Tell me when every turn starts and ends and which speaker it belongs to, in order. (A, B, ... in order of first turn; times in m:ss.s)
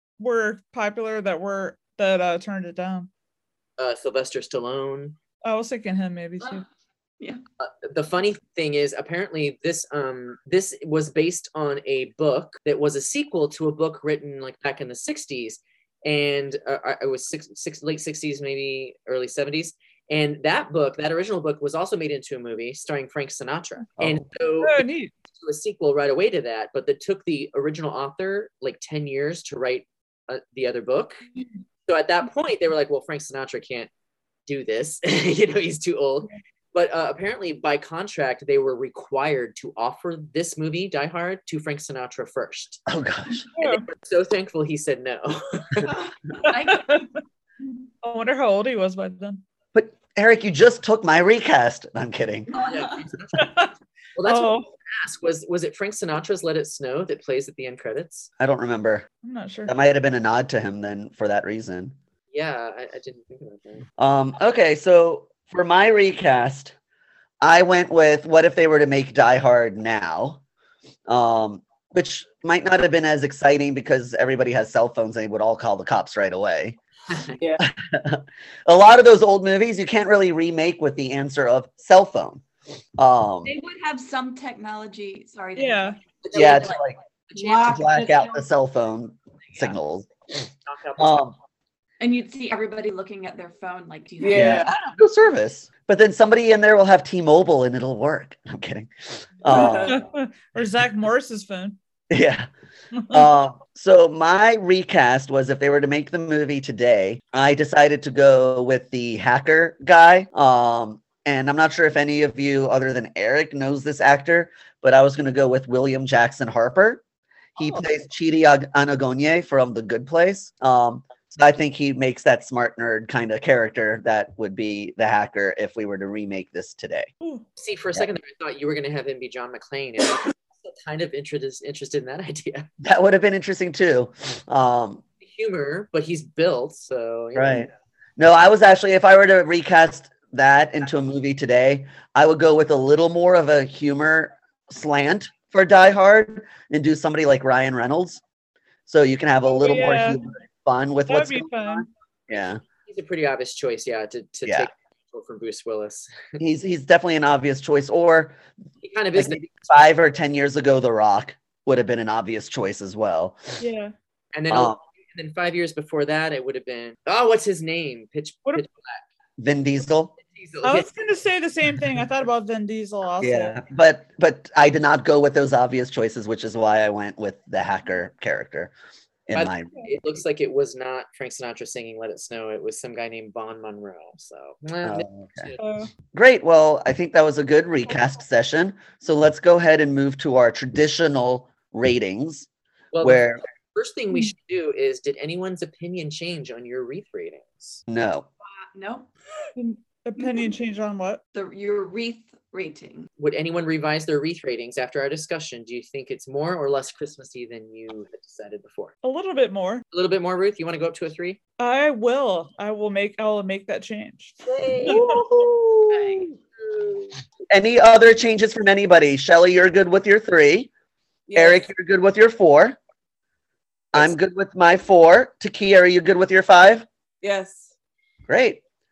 0:00.2-0:03.1 A
0:03.8-0:05.2 B
0:05.4-0:06.6 A
0:07.6-0:31.2 B
0:24.0-0:24.2 C
0:24.6-0:25.1 A
0:31.9-0:33.9 B
0:34.5-0:42.8 B
0:42.9-0:43.5 C
0:43.6-0:43.8 A
0:43.6-0:45.9 B
0:45.9-0:47.1 D
0:46.4-0:47.2 A
0:48.0-0:49.4 A
0:49.7-0:52.5 C
0:52.5-0:53.0 D
0:52.5-0:53.5 B
0:53.3-0:53.7 A
0:54.2-0:58.3 B
0:54.2-0:54.7 A
0:58.4-0:59.1 C
0:59.2-0:59.7 A
0:59.7-1:02.0 C
1:02.3-1:03.9 B
1:04.0-1:06.7 C
1:07.4-1:10.4 C
1:11.1-1:16.8 C
1:17.1-1:17.4 B
1:17.4-1:17.7 E
1:17.6-1:22.4 C
1:23.0-1:23.5 C
1:23.4-1:26.8 D
1:25.6-1:26.0 A
1:26.2-1:26.7 B
1:26.3-1:30.1 C
1:27.3-1:27.6 B
1:27.3-1:28.5 D
1:30.6-1:31.2 B
1:31.0-1:31.4 C
1:32.0-1:34.7 D
1:34.2-1:34.7 E
1:34.3-1:40.0 C
1:39.5-1:40.0 E
1:39.5-1:41.8 A
1:42.1-1:42.5 C
1:43.0-1:43.2 A
1:43.1-1:57.0 C
1:57.6-2:07.1 C
2:07.2-2:07.4 A
2:07.6-2:12.7 B
2:12.8-2:15.0 C
2:15.2-2:17.7 B
2:17.4-2:28.2 C
2:28.9-2:32.6 C
2:29.5-2:30.2 A
2:31.1-2:31.9 A
2:32.9-2:36.2 B
2:36.4-2:38.4 C
2:38.8-2:39.4 B
2:39.2-2:43.6 C
2:43.6-2:43.9 A
2:44.3-2:49.0 B
2:44.5-2:44.8 C
2:49.4-2:50.1 C
2:50.2-2:50.9 B
2:50.6-2:53.6 A
2:53.2-2:58.7 C
2:59.3-2:59.8 C
2:59.3-3:05.7 B
3:04.8-3:05.5 C
3:05.6-3:05.9 A
3:06.1-3:12.5 C
3:12.9-3:17.8 B
3:13.0-3:13.4 C
3:17.9-3:18.3 C
3:18.4-3:19.1 D
3:19.6-3:21.2 A
3:21.3-3:23.1 D
3:23.2-3:29.0 B
3:29.0-3:29.8 A
3:29.9-3:31.4 B
3:31.6-3:35.2 A
3:34.4-3:35.5 B
3:34.8-3:36.2 C
3:36.2-3:37.1 B
3:37.5-3:40.7 C
3:41.3-3:41.7 E
3:41.4-3:42.8 C
3:43.9-3:46.9 C
3:47.2-3:47.7 E
3:48.3-3:48.6 C